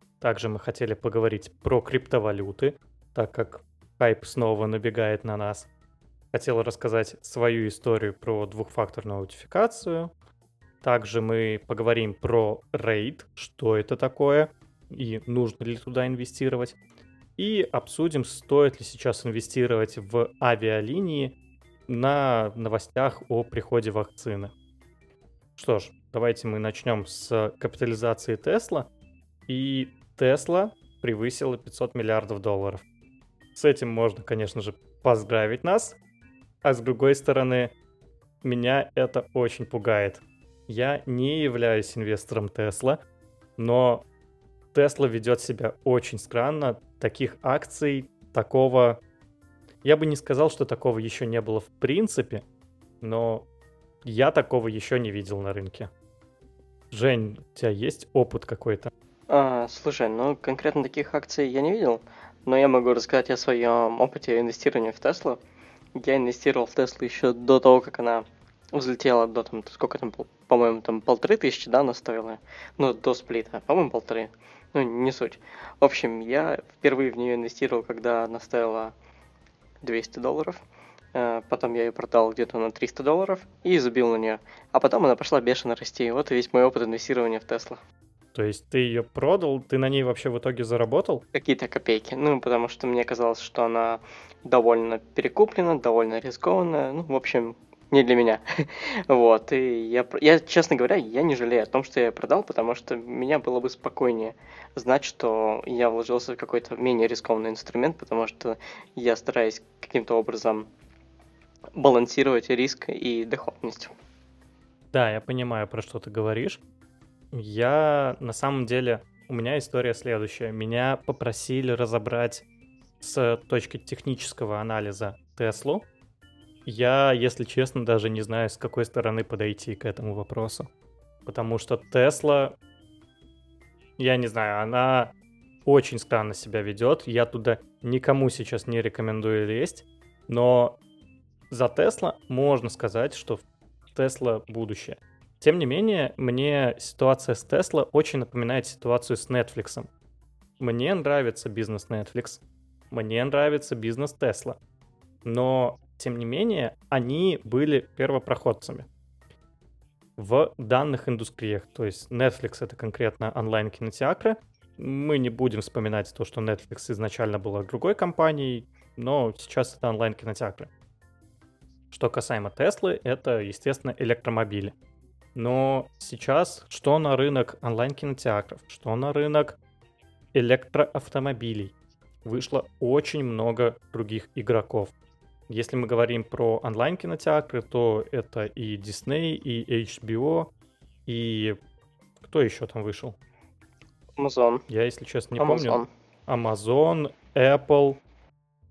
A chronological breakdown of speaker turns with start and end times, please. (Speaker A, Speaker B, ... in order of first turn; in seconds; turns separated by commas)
Speaker A: 0.2-5.7, Speaker A: 6.3-10.1, Speaker A: 10.8-16.8, Speaker A: 17.4-21.3, Speaker A: 21.9-24.5, Speaker A: 25.6-28.9, Speaker A: 29.5-32.8, Speaker A: 33.5-36.0, Speaker A: 36.6-37.7, Speaker A: 38.4-43.0, Speaker A: 43.6-44.0, Speaker A: 44.7-49.0, Speaker A: 49.8-52.4, Speaker A: 53.0-53.5, Speaker A: 54.0-55.9, Speaker A: 56.9-58.9, Speaker B: 59.3-65.4, Speaker B: 65.9-78.9, Speaker B: 79.8-80.6, Speaker B: 81.1-87.8, Speaker A: 88.3-91.2, Speaker B: 91.3-110.7, Speaker B: 111.7-113.9, Speaker A: 114.9-116.6, Speaker A: 117.3-122.5, Speaker A: 123.0-125.8, Speaker A: 126.7-130.7, Speaker A: 131.2-132.6, Speaker A: 134.0-135.1, Speaker A: 135.6-140.8, Speaker A: 141.5-143.4, Speaker A: 143.9-149.9, Speaker A: 150.6-154.6, Speaker A: 155.2-158.9, Speaker A: 160.2-170.7, Speaker A: 171.9-174.7, Speaker A: 175.3-179.6, Speaker A: 180.3-181.7, Speaker A: 182.2-184.9, Speaker A: 185.5-190.5, Speaker A: 191.1-191.6, Speaker A: 192.2-193.2, Speaker B: 194.2-194.6, Speaker A: 194.7-198.0, Speaker B: 195.4-195.9